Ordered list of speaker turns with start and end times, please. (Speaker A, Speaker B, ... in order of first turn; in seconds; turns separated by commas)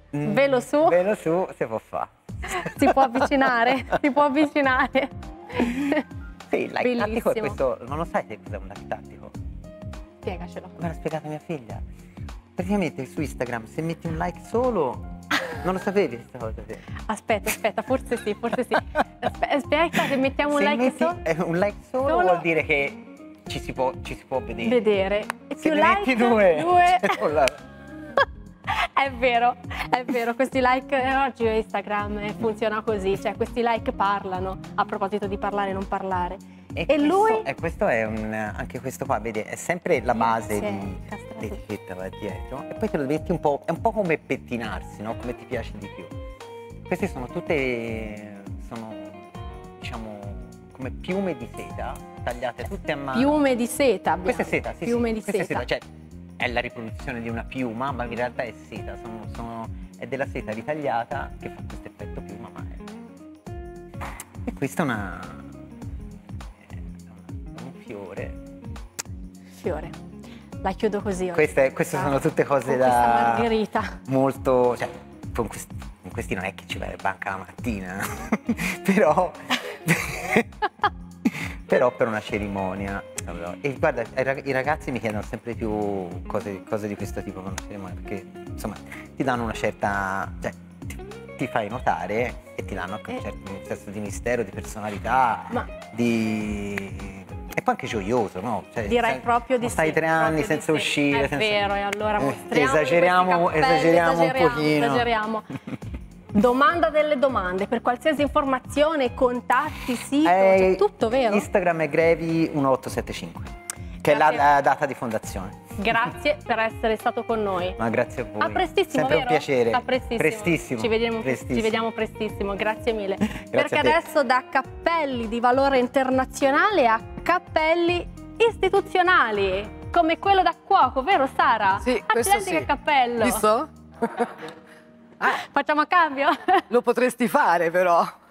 Speaker A: 0.1-4.0, Speaker B: 0.2-1.0, Speaker B: 2.5-6.0, Speaker A: 6.5-9.3, Speaker B: 6.8-7.5, Speaker B: 10.2-10.7, Speaker A: 10.8-11.8, Speaker A: 12.6-16.8, Speaker B: 17.1-21.2, Speaker A: 20.5-24.8, Speaker B: 22.1-22.4, Speaker B: 24.6-27.2, Speaker A: 25.6-27.6, Speaker B: 28.7-37.5, Speaker A: 36.7-46.1, Speaker B: 40.1-41.6, Speaker A: 46.9-49.2, Speaker A: 49.8-53.4, Speaker B: 53.1-55.6, Speaker A: 54.2-55.8, Speaker A: 56.4-62.9, Speaker A: 64.5-65.5, Speaker A: 67.3-68.4, Speaker B: 69.5-70.0, Speaker B: 70.6-72.1, Speaker A: 71.3-73.5, Speaker B: 72.7-74.0, Speaker A: 74.0-80.5, Speaker A: 81.3-101.6, Speaker B: 98.8-105.5, Speaker A: 102.2-105.1, Speaker B: 106.3-111.5, Speaker A: 110.2-113.5, Speaker A: 114.0-116.0, Speaker B: 114.1-114.4, Speaker B: 115.8-117.8, Speaker A: 117.8-121.8, Speaker B: 118.4-133.4, Speaker A: 123.3-124.0, Speaker C: 131.8-134.3, Speaker B: 135.2-136.7, Speaker C: 136.7-138.1